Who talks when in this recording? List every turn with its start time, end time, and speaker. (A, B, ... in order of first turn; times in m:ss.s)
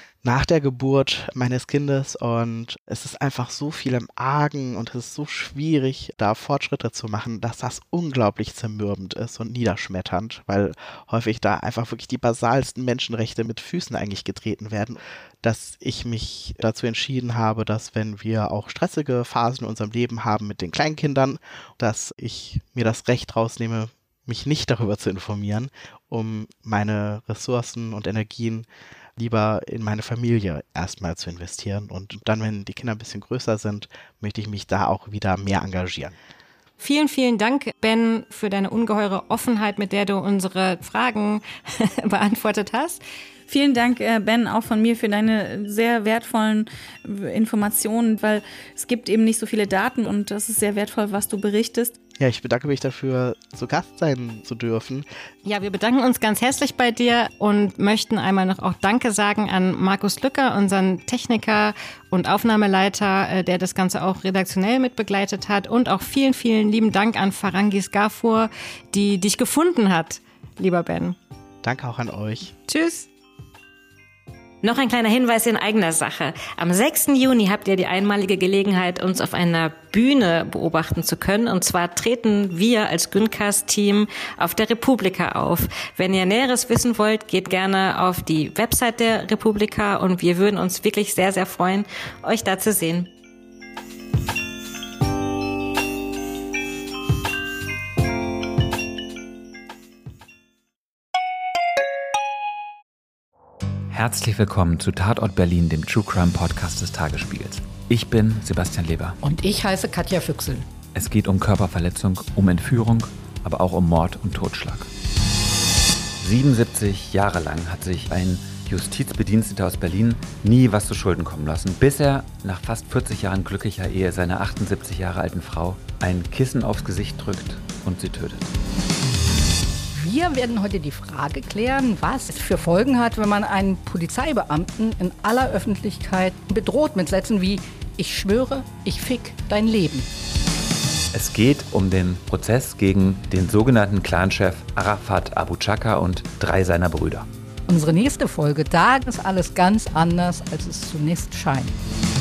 0:00.2-0:36.2 A
0:36.8-0:43.0 B
0:43.5-0:52.0 C
0:52.2-0:55.1 A
0:55.4-1:11.2 B
1:11.6-1:12.5 A
1:12.7-1:13.1 B
1:14.6-1:33.1 B
1:43.9-1:49.2 D
1:49.2-1:50.6 E
1:51.0-1:54.9 D
1:56.2-2:08.5 D
2:09.9-2:20.1 E
2:21.1-2:27.3 D
2:27.7-2:31.7 E